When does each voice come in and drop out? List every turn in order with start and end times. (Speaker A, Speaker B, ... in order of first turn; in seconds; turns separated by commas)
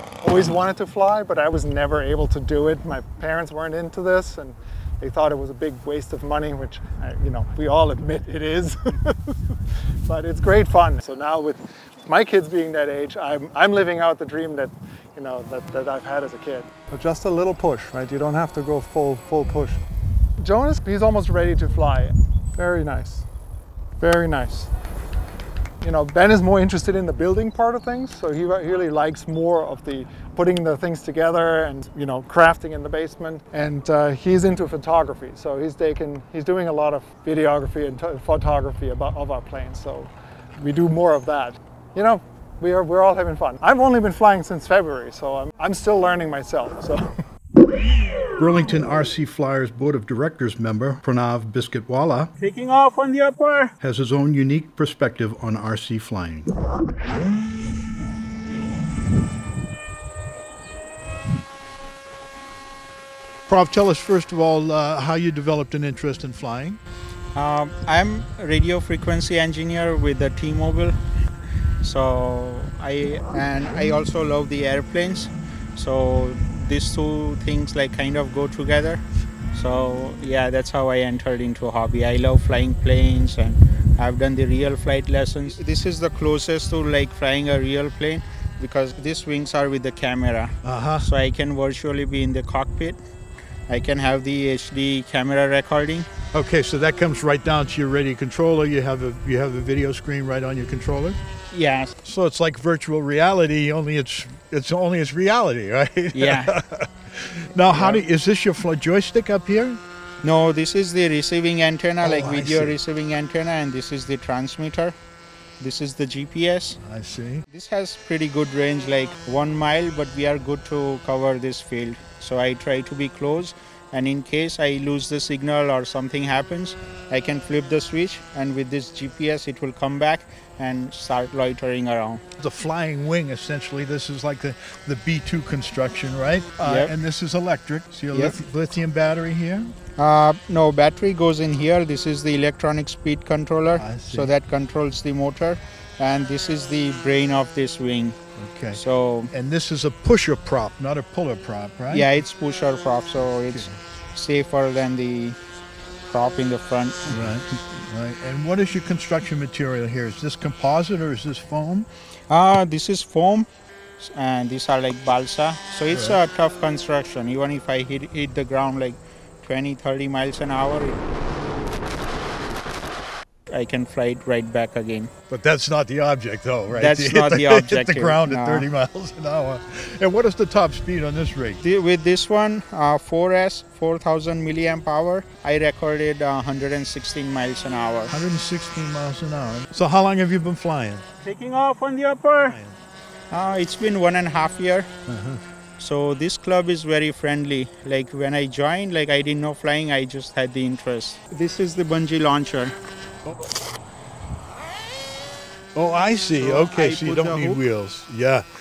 Speaker A: 0.2-9.4, Speaker A: 10.0-19.8, Speaker A: 20.4-23.2, Speaker A: 24.0-24.7, Speaker A: 25.8-47.1, Speaker B: 48.4-52.3, Speaker C: 52.4-53.7, Speaker B: 53.8-56.5, Speaker D: 63.5-66.8, Speaker C: 67.3-71.0, Speaker C: 71.8-93.0, Speaker D: 90.6-91.1, Speaker C: 93.7-96.1, Speaker D: 96.3-101.2, Speaker C: 101.5-101.9, Speaker D: 102.0-109.8, Speaker C: 106.1-106.5, Speaker C: 107.7-108.0, Speaker C: 110.2-114.9, Speaker D: 112.0-112.8, Speaker C: 115.6-116.8, Speaker D: 116.8-117.5, Speaker C: 117.5-132.2, Speaker D: 132.4-139.7, Speaker C: 136.6-136.9, Speaker C: 138.1-138.4, Speaker C: 140.0-148.2, Speaker D: 143.8-144.3, Speaker D: 148.4-152.2, Speaker C: 148.7-149.3, Speaker C: 151.9-155.4, Speaker C: 156.0-157.3, Speaker D: 157.1-161.9, Speaker C: 162.3-163.5, Speaker C: 164.0-171.0, Speaker D: 165.9-166.2, Speaker C: 173.5-175.1, Speaker D: 175.3-181.6, Speaker C: 176.7-178.7, Speaker C: 181.6-188.1, Speaker D: 188.1-191.1, Speaker C: 191.2-192.6, Speaker D: 192.5-192.8, Speaker C: 193.3-194.9, Speaker D: 195.1-195.4, Speaker C: 195.8-202.7, Speaker D: 205.7-208.4, Speaker C: 206.4-207.6